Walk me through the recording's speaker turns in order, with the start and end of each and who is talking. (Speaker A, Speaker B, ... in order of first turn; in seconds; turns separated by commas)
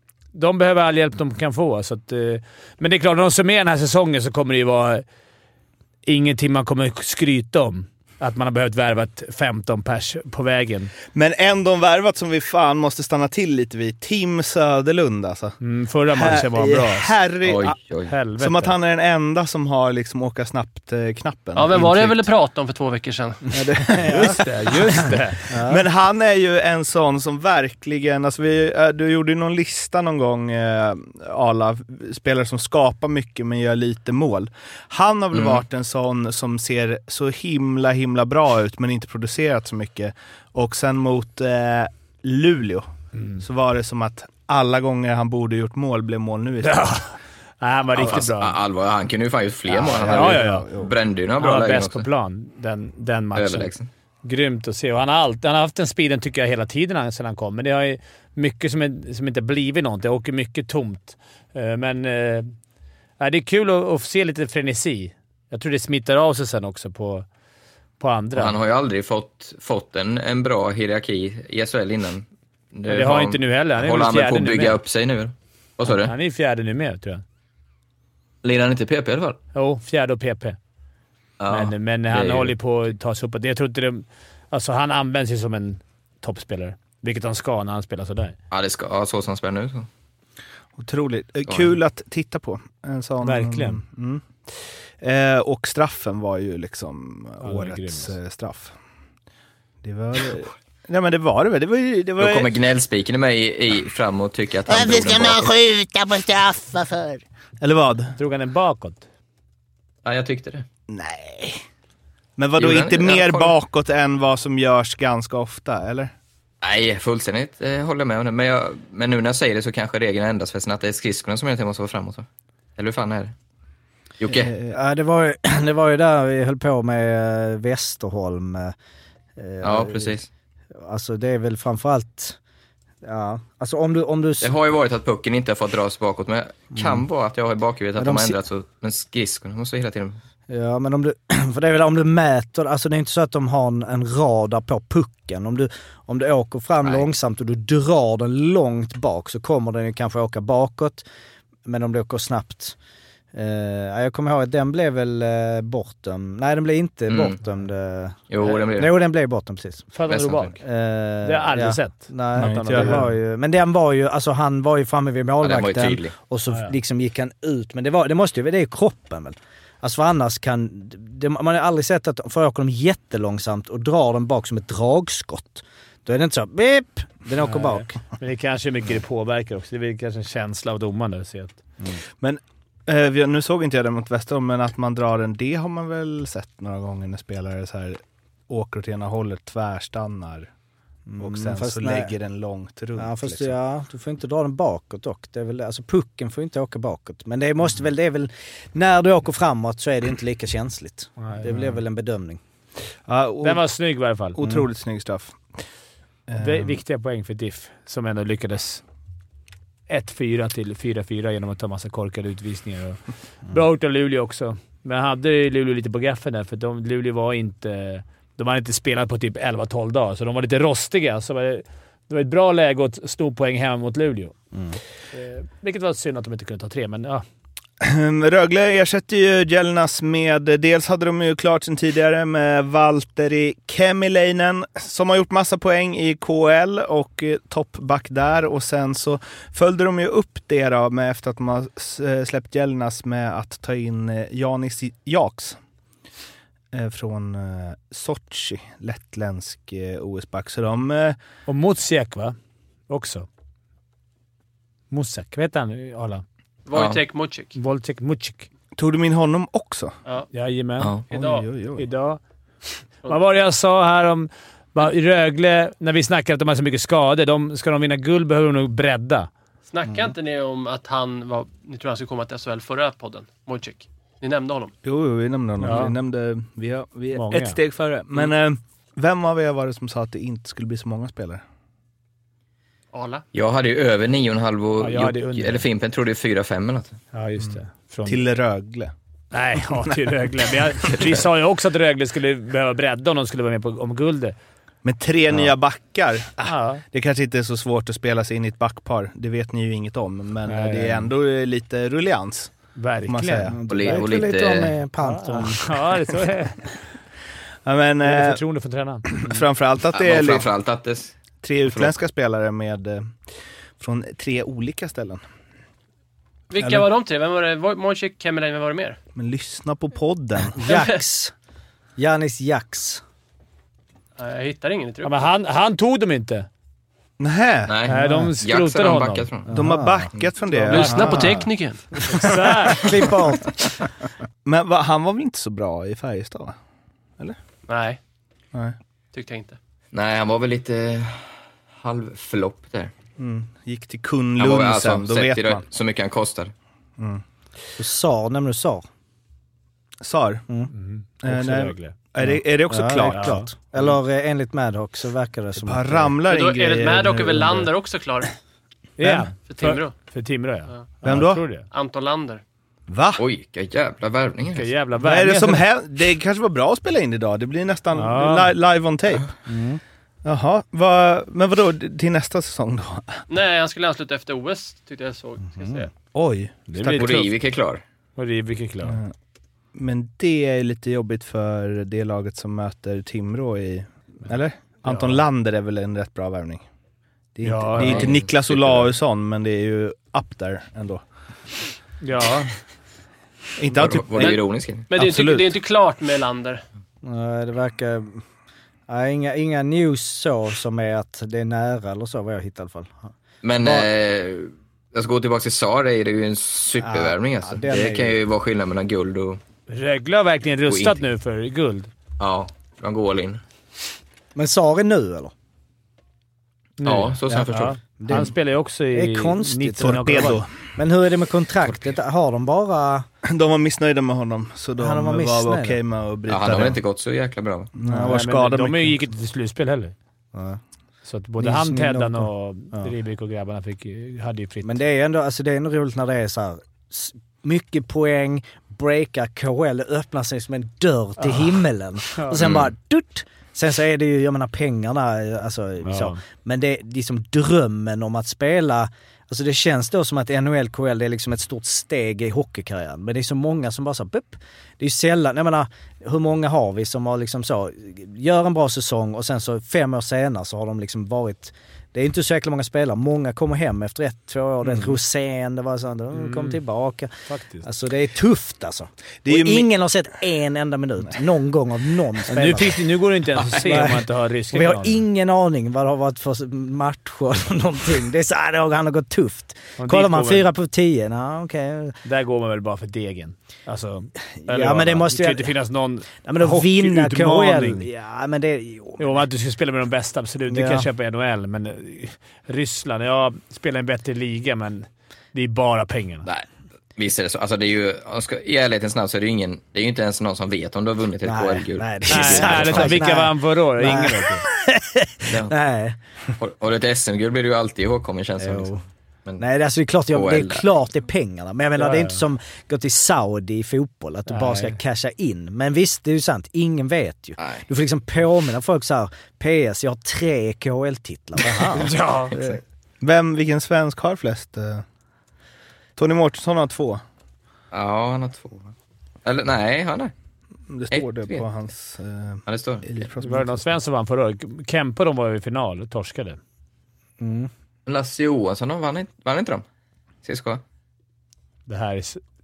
Speaker A: 0.3-5.0, Speaker A: 6.0-10.9, Speaker B: 11.1-15.6, Speaker A: 15.6-17.1, Speaker B: 16.1-17.7, Speaker C: 17.4-18.1, Speaker A: 18.1-18.7, Speaker B: 18.4-22.3, Speaker D: 21.5-23.5, Speaker E: 23.6-24.4, Speaker B: 23.7-24.9, Speaker A: 24.0-25.4, Speaker E: 25.5-25.8, Speaker B: 25.5-42.9, Speaker C: 35.3-35.6, Speaker A: 43.1-43.4, Speaker B: 43.4-47.0, Speaker A: 46.6-48.5, Speaker C: 47.9-52.0, Speaker B: 49.7-50.9, Speaker A: 50.1-50.7, Speaker A: 51.4-53.7, Speaker C: 53.3-53.9, Speaker A: 54.2-62.5, Speaker A: 63.2-67.2, Speaker A: 68.0-68.5, Speaker C: 68.3-76.1, Speaker A: 72.9-74.8, Speaker A: 75.8-77.2, Speaker C: 78.4-79.4, Speaker A: 79.5-80.6, Speaker C: 81.4-82.5, Speaker A: 81.5-88.3, Speaker C: 88.5-89.9, Speaker B: 90.8-98.7, Speaker C: 91.5-91.7, Speaker A: 93.2-93.8, Speaker A: 97.4-98.1, Speaker B: 99.8-102.5, Speaker C: 102.2-105.5, Speaker F: 104.7-107.2, Speaker B: 107.6-108.2, Speaker A: 108.2-109.0, Speaker C: 110.0-110.7, Speaker B: 110.9-111.6, Speaker B: 112.4-116.1, Speaker C: 112.6-113.5, Speaker C: 116.6-123.3, Speaker C: 124.2-124.5, Speaker B: 124.3-124.7, Speaker E: 124.7-128.7, Speaker E: 129.4-130.2, Speaker C: 129.6-130.3, Speaker E: 130.8-132.4, Speaker E: 133.0-134.5, Speaker C: 134.4-140.2, Speaker E: 136.7-137.0, Speaker E: 138.0-138.4, Speaker E: 140.5-151.0, Speaker E: 151.7-152.8, Speaker E: 153.3-159.9, Speaker C: 157.1-157.4, Speaker C: 158.3-158.9, Speaker A: 159.9-160.6, Speaker C: 160.1-160.5, Speaker E: 160.6-178.0, Speaker A: 161.2-163.1, Speaker B: 162.3-163.1, Speaker C: 165.4-166.1, Speaker A: 177.4-181.6, Speaker B: 182.2-190.5, Speaker E: 191.1-192.1, Speaker B: 191.2-193.5, Speaker E: 192.9-202.4, Speaker A: 201.2-201.5, Speaker B: 203.1-203.6, Speaker A: 203.4-204.4, Speaker B: 204.3-205.4, Speaker B: 206.3-206.7, Speaker A: 206.4-208.8, Speaker A: 209.9-224.3, Speaker E: 224.5-224.8, Speaker A: 225.1-227.2, Speaker B: 227.8-245.6, Speaker B: 246.7-251.2, Speaker A: 251.5-252.3, Speaker A: 252.9-253.3, Speaker A: 254.9-256.2, Speaker D: 256.6-257.6, Speaker C: 256.7-257.0, Speaker A: 257.5-258.5, Speaker B: 258.8-260.0, Speaker A: 260.3-260.9, Speaker C: 260.8-261.0, Speaker D: 261.1-261.4, Speaker B: 261.1-261.9, Speaker A: 261.8-262.2, Speaker A: 263.1-269.3, Speaker D: 269.7-274.7, Speaker B: 274.8-281.4, Speaker A: 275.6-275.9, Speaker A: 277.1-277.6, Speaker D: 282.9-283.2, Speaker C: 283.3-287.0, Speaker A: 284.8-285.6, Speaker A: 287.1-288.2, Speaker B: 287.4-288.9, Speaker A: 289.3-294.3, Speaker B: 289.6-290.0, Speaker B: 294.8-302.5, Speaker A: 296.4-296.8, Speaker A: 300.4-301.1, Speaker A: 302.8-303.6, Speaker B: 303.1-303.6, Speaker E: 303.5-305.8, Speaker C: 303.7-304.8, Speaker A: 305.0-306.8, Speaker B: 307.6-308.4, Speaker A: 308.0-309.4, Speaker B: 309.1-310.5, Speaker C: 309.9-311.1, Speaker B: 311.4-313.1, Speaker C: 311.7-311.9, Speaker B: 313.8-315.2, Speaker D: 316.5-319.0, Speaker B: 316.6-316.9, Speaker B: 319.1-320.6, Speaker E: 320.6-321.3, Speaker D: 320.6-321.0, Speaker E: 322.0-323.0, Speaker D: 324.2-325.1, Speaker A: 325.0-326.5, Speaker B: 327.2-327.7, Speaker C: 327.7-329.5, Speaker A: 327.9-329.3, Speaker E: 327.9-328.3, Speaker E: 329.5-330.1, Speaker B: 329.5-331.5, Speaker D: 330.6-332.0, Speaker A: 330.7-331.4, Speaker A: 332.0-333.0, Speaker B: 332.1-333.0, Speaker E: 332.6-333.7, Speaker B: 334.4-336.5, Speaker D: 337.7-338.0, Speaker D: 339.1-339.6, Speaker C: 339.9-342.9, Speaker B: 343.2-345.6, Speaker C: 344.4-346.5, Speaker B: 347.0-347.2, Speaker E: 347.8-348.8, Speaker B: 350.0-350.4, Speaker A: 350.7-351.9, Speaker B: 351.2-353.9, Speaker E: 352.2-356.2, Speaker A: 353.0-353.5, Speaker B: 355.6-357.7, Speaker D: 356.2-358.3, Speaker A: 359.0-361.7, Speaker D: 359.4-359.9, Speaker B: 361.0-361.4, Speaker D: 361.7-362.4, Speaker B: 362.9-363.2, Speaker C: 363.2-364.7, Speaker A: 364.5-365.6, Speaker B: 365.0-369.3, Speaker A: 367.9-368.5, Speaker E: 369.5-369.8, Speaker B: 370.2-373.2, Speaker D: 373.3-375.9, Speaker E: 375.5-375.9, Speaker B: 376.1-377.1, Speaker A: 376.7-377.3, Speaker C: 376.8-377.8, Speaker A: 378.1-379.0, Speaker B: 378.8-379.1, Speaker B: 379.7-386.6, Speaker A: 384.9-385.2, Speaker B: 387.3-391.0, Speaker A: 387.4-388.1, Speaker C: 387.8-388.9, Speaker A: 392.0-392.5, Speaker B: 393.6-394.4, Speaker C: 393.7-394.9, Speaker D: 394.9-396.6, Speaker B: 394.9-395.6, Speaker E: 397.0-398.2, Speaker E: 398.9-403.9, Speaker C: 403.4-409.4, Speaker E: 406.8-408.2, Speaker A: 409.7-411.9, Speaker C: 410.7-411.0, Speaker C: 412.2-413.4, Speaker E: 414.3-415.3, Speaker A: 416.8-420.4, Speaker C: 416.8-417.8, Speaker E: 417.3-418.4, Speaker E: 418.9-423.1, Speaker B: 419.8-420.5, Speaker B: 423.2-426.8, Speaker E: 424.8-425.8, Speaker C: 426.3-427.7, Speaker B: 427.7-429.0, Speaker E: 427.8-428.2, Speaker A: 428.1-429.9, Speaker E: 430.3-430.6, Speaker A: 431.1-434.8, Speaker E: 431.4-432.9, Speaker E: 434.6-472.8, Speaker A: 441.2-441.5, Speaker C: 442.4-442.7, Speaker A: 445.8-446.2, Speaker A: 466.1-466.6, Speaker A: 467.3-467.6, Speaker B: 469.2-469.7, Speaker A: 472.3-475.0, Speaker E: 473.5-482.0, Speaker A: 479.8-480.4, Speaker A: 482.0-487.9, Speaker E: 484.4-485.5, Speaker E: 486.2-489.2, Speaker A: 489.0-496.2, Speaker E: 490.5-490.9, Speaker C: 496.2-503.0, Speaker E: 501.2-506.0, Speaker A: 502.1-504.4, Speaker C: 505.2-505.5, Speaker C: 506.4-509.4, Speaker E: 508.4-508.8, Speaker E: 509.4-522.5, Speaker C: 510.1-510.6, Speaker A: 511.8-512.2, Speaker A: 514.3-514.7, Speaker C: 517.4-517.6, Speaker A: 521.6-522.3, Speaker B: 522.3-524.8, Speaker B: 526.0-527.0, Speaker C: 527.7-528.7, Speaker C: 529.2-530.1, Speaker B: 530.7-533.6, Speaker C: 530.9-531.4, Speaker C: 532.5-532.8, Speaker A: 533.2-536.4, Speaker E: 537.2-537.5, Speaker C: 537.9-539.6, Speaker C: 540.2-540.6, Speaker A: 541.7-542.2